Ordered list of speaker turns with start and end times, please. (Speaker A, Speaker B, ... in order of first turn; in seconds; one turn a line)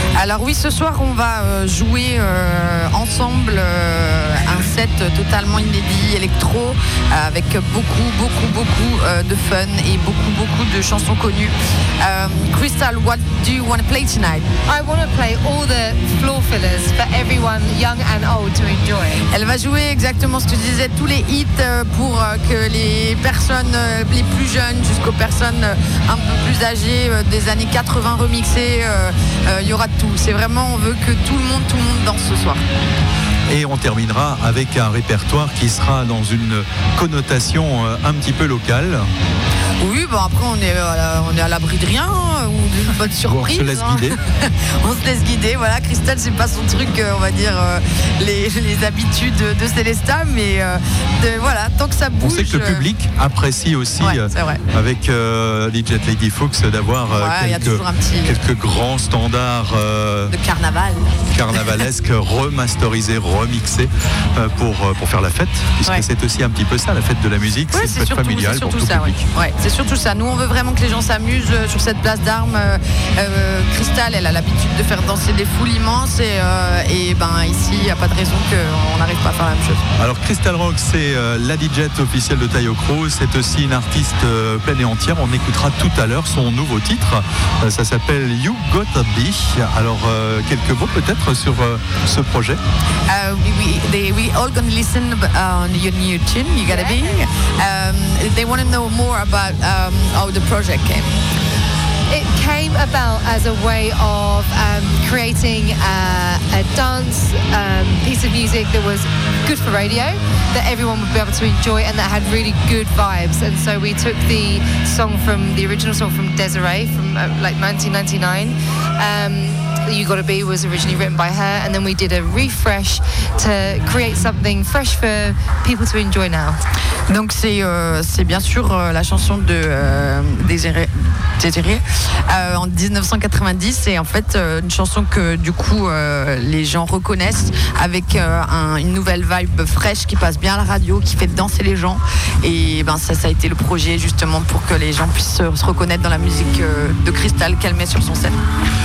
Speaker A: 0.1-14.5
Speaker B: 14.7-19.2
Speaker A: 19.3-32.6
Speaker C: 33.5-39.1
Speaker A: 39.8-52.9
Speaker C: 43.2-44.1
Speaker C: 52.2-60.3
Speaker A: 54.0-54.6
Speaker A: 57.1-58.4
Speaker A: 60.3-61.1
Speaker C: 61.3-69.3
Speaker A: 67.7-79.8
Speaker C: 80.0-92.6
Speaker A: 93.1-101.1
Speaker B: 96.7-97.1
Speaker B: 102.1-126.6
Speaker A: 127.1-148.4